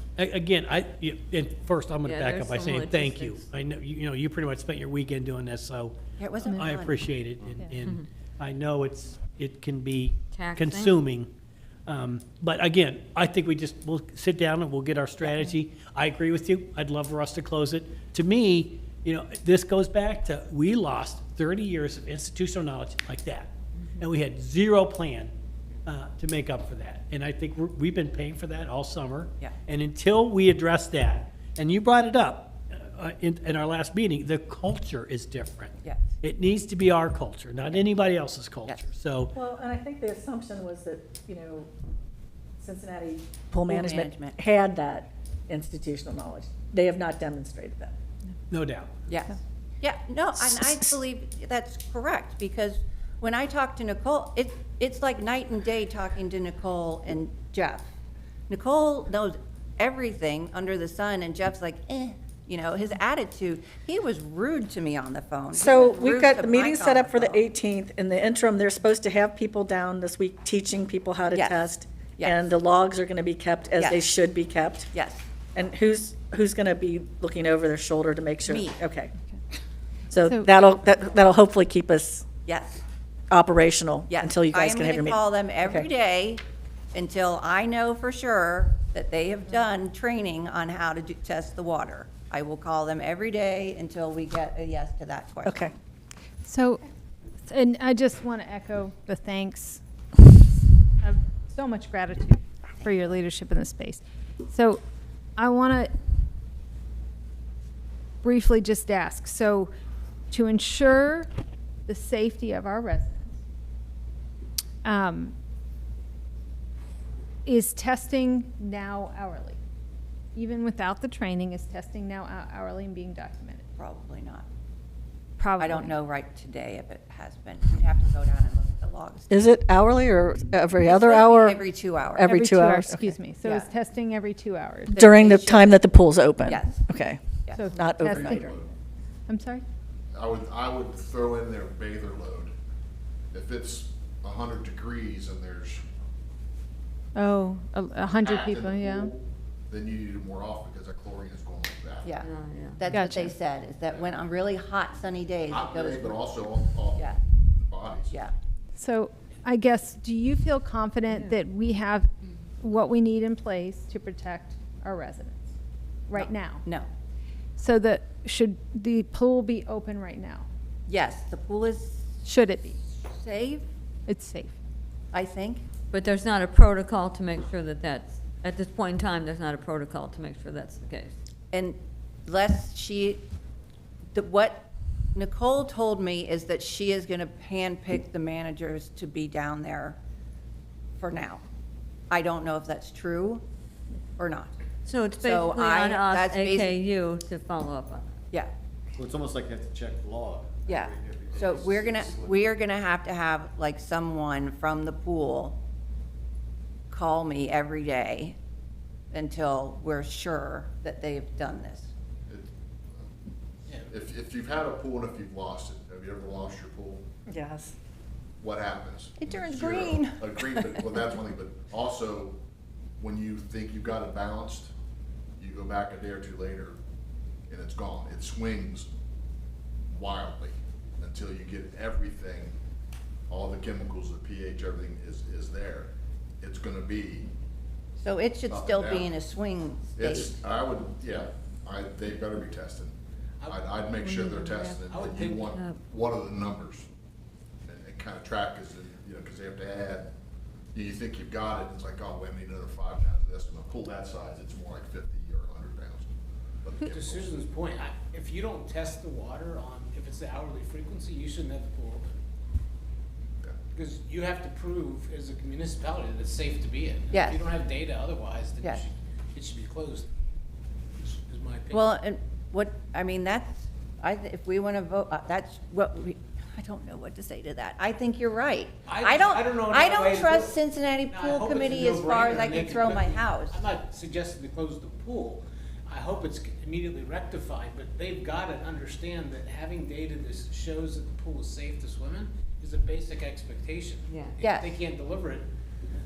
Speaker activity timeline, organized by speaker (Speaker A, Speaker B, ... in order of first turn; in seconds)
Speaker A: 0.1-5.9, 6.5-11.3, 11.8-25.3, 25.9-39.3, 48.5-48.9
Speaker B: 2.0-3.5, 7.8-8.1, 10.3-11.0, 152.2-152.8, 161.1-161.4, 175.9-181.1, 194.8-198.1, 244.0-244.9, 245.4-245.8, 294.1-294.4
Speaker C: 6.2-6.9, 43.7-44.4, 49.1-57.9, 58.5-67.4, 71.3-71.6, 72.2-72.5, 73.8-74.1, 74.9-75.3, 78.5-78.8, 82.5-82.8, 84.1-86.4, 86.9-95.7, 123.8-124.5, 125.6-129.4, 130.8-132.4, 133.4-133.7, 135.0-135.8, 136.4-136.8, 137.4-138.5, 152.0-156.3, 156.9-157.2, 166.1-166.9, 170.9-172.1, 172.9-173.7, 175.1-175.6, 181.5-183.2, 184.1-190.0, 191.0-191.4, 192.1-193.4, 194.2-194.5, 195.2-196.8, 200.7-205.6, 206.9-208.4, 209.1-211.9, 219.2-220.9, 238.0-240.4, 267.1-267.4, 271.7-283.6, 294.4-294.7
Speaker D: 39.3-41.7, 42.6-47.9, 65.5-74.9, 75.5-79.1, 80.1-82.2, 83.3-85.9, 95.4-95.7, 129.3-133.1, 134.9-138.5, 217.3-217.7
Speaker E: 80.2-80.5, 96.4-96.8, 97.5-99.8, 101.0-104.8, 105.4-105.9, 108.2-109.7, 110.3-111.3, 111.9-113.4, 114.8-115.3, 117.5-119.6, 120.3-123.6, 125.4-126.0, 132.2-135.1, 137.5-138.5, 139.3-139.6, 147.1-149.1, 152.9-153.3, 158.7-165.5, 166.1-166.6, 167.6-170.4, 172.2-172.8, 174.1-174.6
Speaker F: 138.1-138.7, 140.1-142.5, 143.3-145.8, 148.1-152.1, 155.5-158.2, 212.3-213.2, 213.9-217.0, 218.4-222.4, 223.0-224.7, 225.4-226.8, 227.5-228.9, 229.9-232.6, 233.3-237.3, 238.5-239.1, 240.0-242.9, 243.5-246.9, 247.7-250.1, 250.7-256.1, 256.6-257.3
Speaker G: 199.0-202.4
Speaker H: 243.4-244.0, 244.9-245.4, 256.9-262.1, 263.7-270.1, 271.0-271.9, 278.9-295.5